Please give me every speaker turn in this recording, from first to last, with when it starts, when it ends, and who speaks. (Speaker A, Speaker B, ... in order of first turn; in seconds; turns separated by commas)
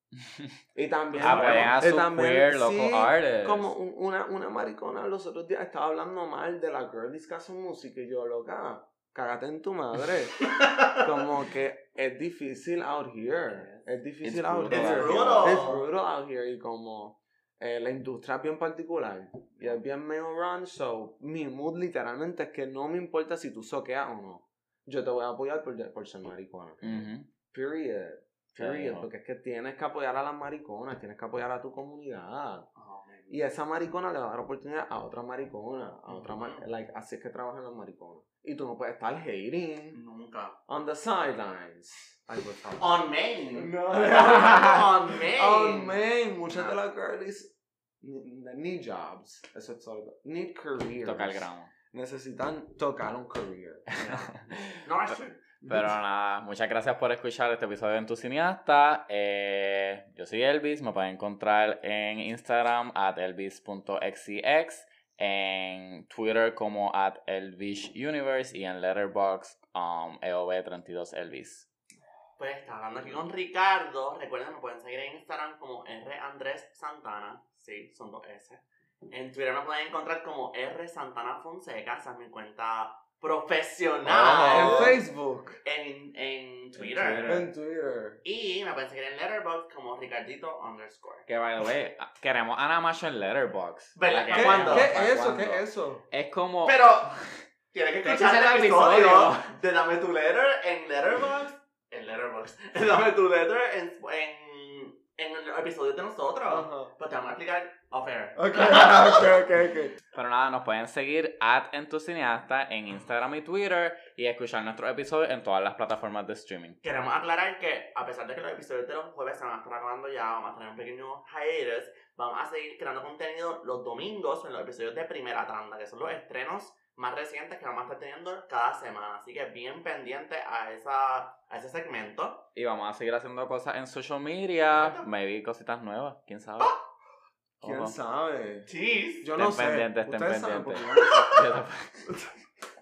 Speaker A: 0.7-32.7, Speaker B: 1.2-1.8, Speaker C: 1.2-3.7, Speaker B: 10.5-11.0, Speaker B: 13.5-13.9, Speaker C: 14.2-15.8, Speaker B: 14.7-15.8, Speaker C: 26.8-27.3, Speaker C: 28.6-29.1, Speaker B: 32.7-33.3, Speaker A: 33.3-40.0, Speaker B: 36.1-36.6, Speaker B: 39.9-40.6, Speaker A: 40.7-54.0, Speaker B: 42.8-46.0, Speaker C: 51.0-51.7, Speaker B: 54.0-55.4, Speaker C: 54.0-54.8, Speaker A: 55.6-55.9, Speaker C: 55.6-71.7, Speaker B: 72.4-85.0, Speaker C: 84.0-85.0, Speaker A: 84.4-85.6, Speaker B: 85.6-87.4, Speaker C: 86.8-87.4, Speaker A: 87.2-88.2, Speaker B: 88.2-91.3, Speaker C: 91.3-97.4, Speaker B: 94.0-95.0, Speaker A: 94.3-96.0, Speaker B: 96.6-109.3, Speaker C: 98.0-99.5, Speaker A: 106.5-106.9, Speaker A: 108.3-110.0, Speaker C: 110.1-116.8, Speaker B: 116.8-132.5, Speaker C: 132.5-136.8, Speaker B: 134.7-135.1, Speaker C: 137.6-137.9, Speaker A: 137.6-138.7, Speaker B: 138.7-139.3, Speaker A: 139.2-141.4, Speaker C: 139.3-142.2